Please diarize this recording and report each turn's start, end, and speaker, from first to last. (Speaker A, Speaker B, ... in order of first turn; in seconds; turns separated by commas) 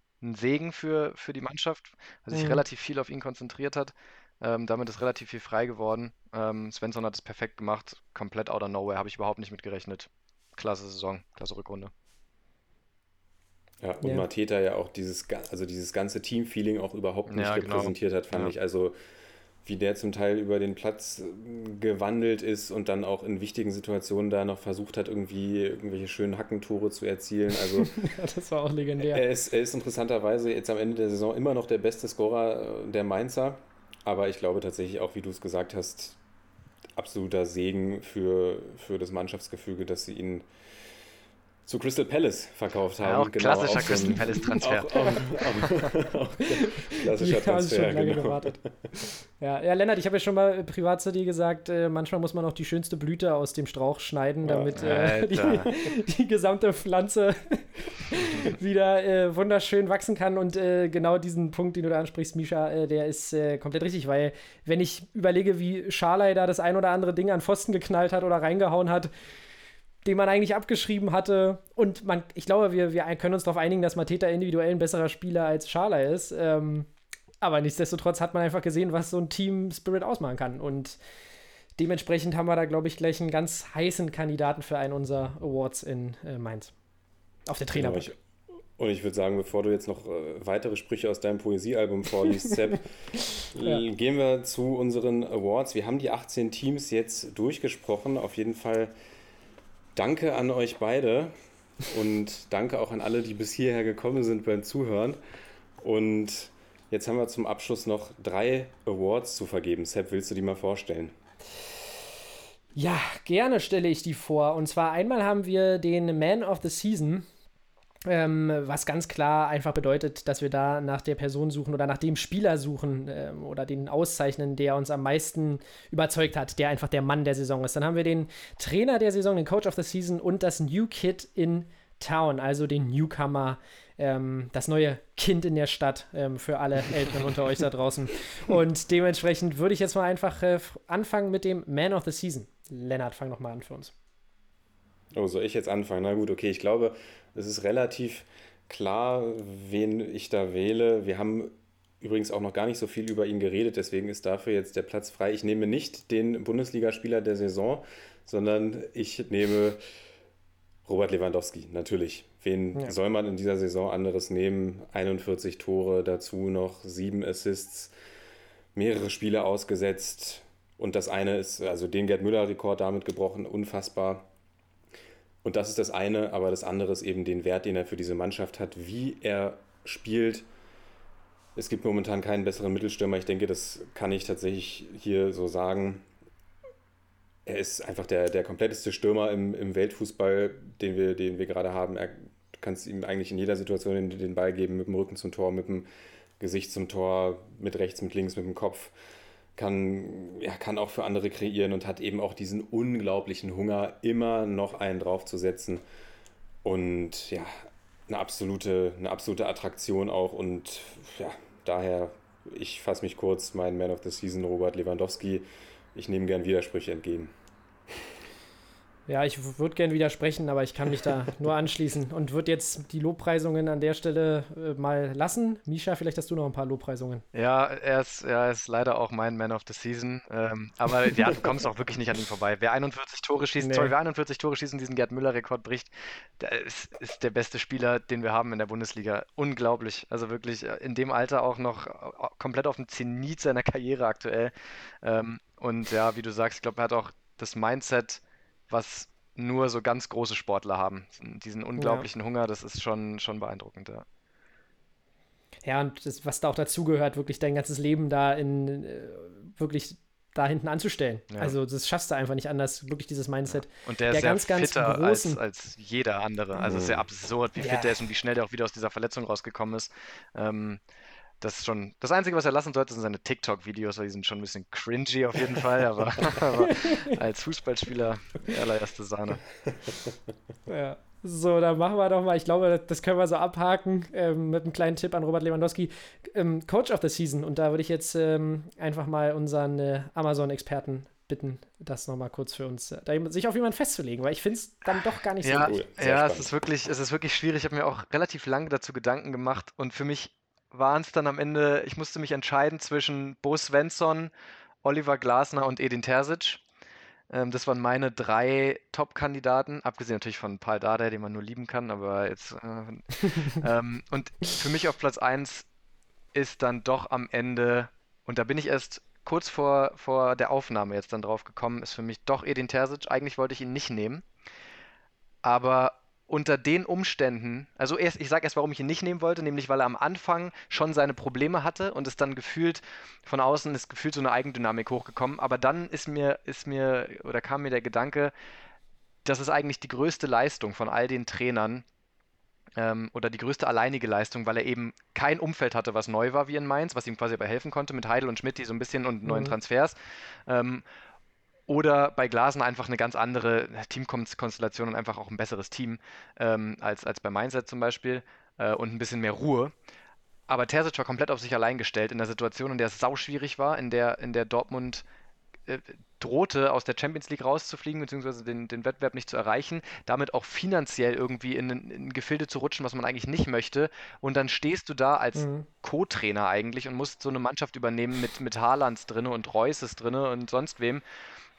Speaker A: 0.2-11.9, Speaker B: 2.3-2.6, Speaker C: 13.8-19.0, Speaker A: 17.3-18.5, Speaker C: 19.6-27.9, Speaker B: 27.8-29.2, Speaker C: 29.0-36.2, Speaker C: 37.0-40.5, Speaker C: 41.6-48.9, Speaker A: 43.0-45.1, Speaker B: 44.9-45.2, Speaker B: 46.5-48.6, Speaker B: 49.4-69.1, Speaker C: 54.4-54.8, Speaker A: 54.8-55.7, Speaker B: 70.0-76.9, Speaker B: 77.4-81.0, Speaker B: 81.8-86.7, Speaker B: 87.5-88.1, Speaker C: 87.7-88.1, Speaker C: 88.8-92.9, Speaker C: 93.5-98.9, Speaker C: 100.0-105.2, Speaker C: 105.8-111.2, Speaker B: 112.8-117.2, Speaker B: 118.0-143.9, Speaker C: 145.1-159.8, Speaker C: 160.8-167.9, Speaker C: 168.7-174.3, Speaker C: 175.4-180.5, Speaker C: 181.6-186.1, Speaker C: 187.4-195.9, Speaker C: 196.4-198.9, Speaker C: 199.6-205.8, Speaker C: 206.6-217.3, Speaker B: 219.1-227.2, Speaker A: 227.3-254.0, Speaker B: 233.6-233.9, Speaker B: 251.8-252.1, Speaker B: 255.6-265.4, Speaker A: 261.3-261.6, Speaker A: 263.9-270.8, Speaker C: 266.6-267.0, Speaker B: 267.6-267.9, Speaker A: 271.4-279.4, Speaker B: 276.6-277.2, Speaker B: 280.7-295.8, Speaker A: 295.4-304.3, Speaker C: 295.6-296.5, Speaker A: 304.8-306.6, Speaker A: 307.3-315.6, Speaker A: 316.3-324.2, Speaker A: 325.4-338.3, Speaker A: 339.2-341.8, Speaker A: 342.8-350.8, Speaker B: 349.3-349.5, Speaker A: 351.7-359.7, Speaker A: 360.5-365.0, Speaker A: 365.7-381.0, Speaker B: 375.4-375.6